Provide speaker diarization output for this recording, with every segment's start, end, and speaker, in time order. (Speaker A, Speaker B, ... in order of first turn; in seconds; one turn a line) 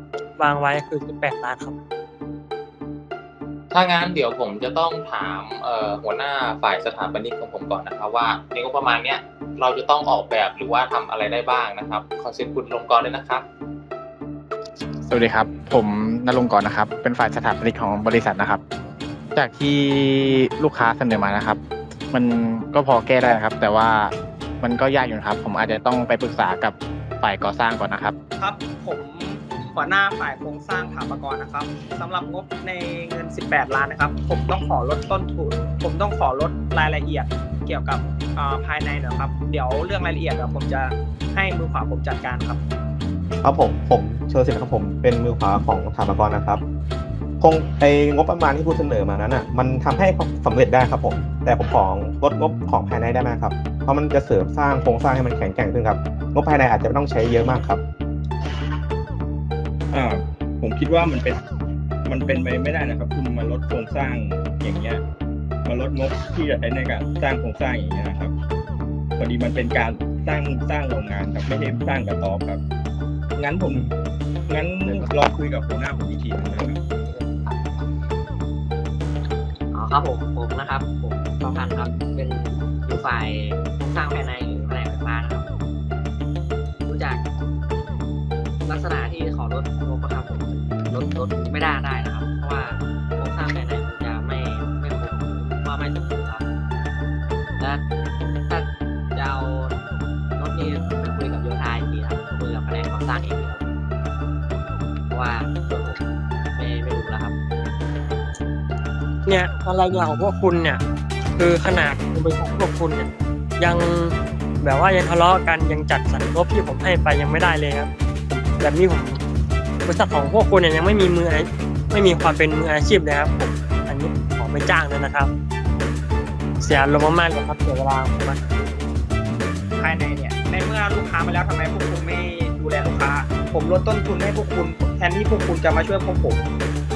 Speaker A: 0.4-1.8
Speaker B: 3.7-13.5
Speaker C: 15.1-18.6
Speaker C: 19.4-21.6
Speaker C: 22.1-28.1
Speaker D: 28.4-42.6
Speaker E: 43.4-46.6
Speaker E: 47.4-57.8
Speaker F: 59.9-61.4
Speaker F: 62.1-65.0
Speaker F: 65.7-68.3
Speaker F: 69.2-72.6
Speaker F: 73.3-73.9
Speaker F: 74.5-76.8
Speaker G: 79.7-85.5
Speaker G: 86.8-87.2
Speaker G: 88.6-96.4
Speaker G: 98.5-99.8
Speaker G: 100.4-103.7
Speaker G: 105.1-106.0
Speaker G: 106.5-107.4
Speaker A: 109.2-110.8
Speaker A: 111.4-119.2
Speaker A: 119.9-125.3
Speaker A: 126.6-128.6
Speaker D: 129.8-136.4